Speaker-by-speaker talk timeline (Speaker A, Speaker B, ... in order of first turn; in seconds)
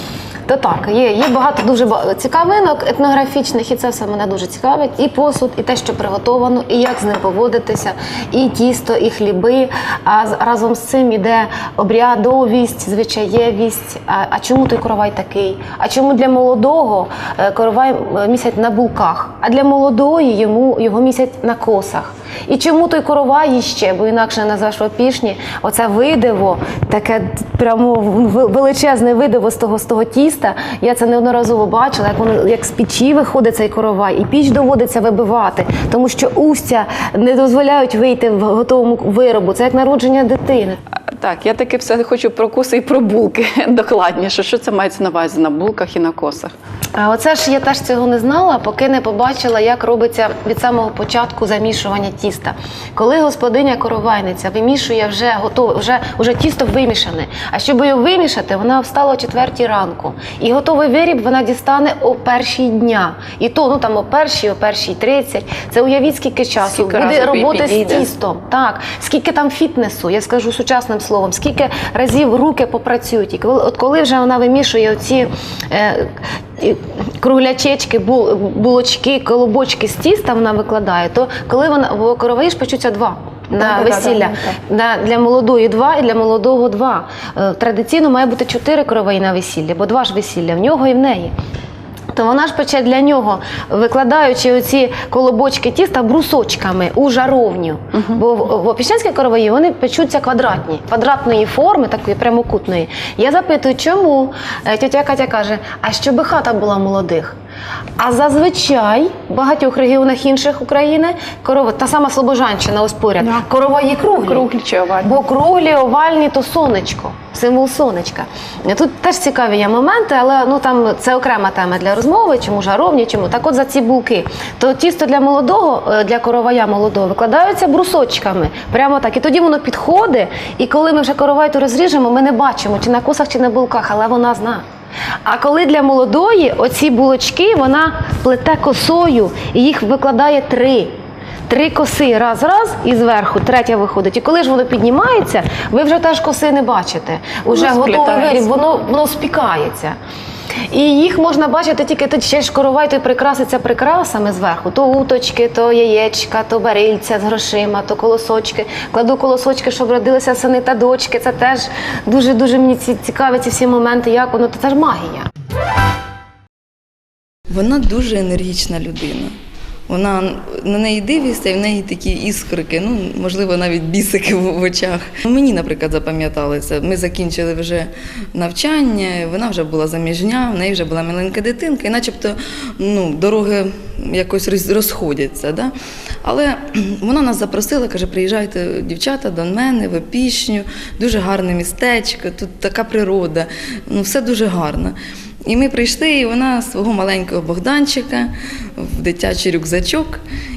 Speaker A: 0.5-40.8, 47.0-91.3, 92.1-107.3, 108.0-114.5, 115.0-134.6, 135.2-140.9, 141.5-150.0, 150.7-165.3
Speaker B: 41.2-46.5, 66.6-68.1, 83.6-84.6, 97.9-98.2, 114.2-115.2, 147.5-148.5
Speaker C: 167.5-169.3, 169.9-185.7, 186.2-194.9, 195.4-200.2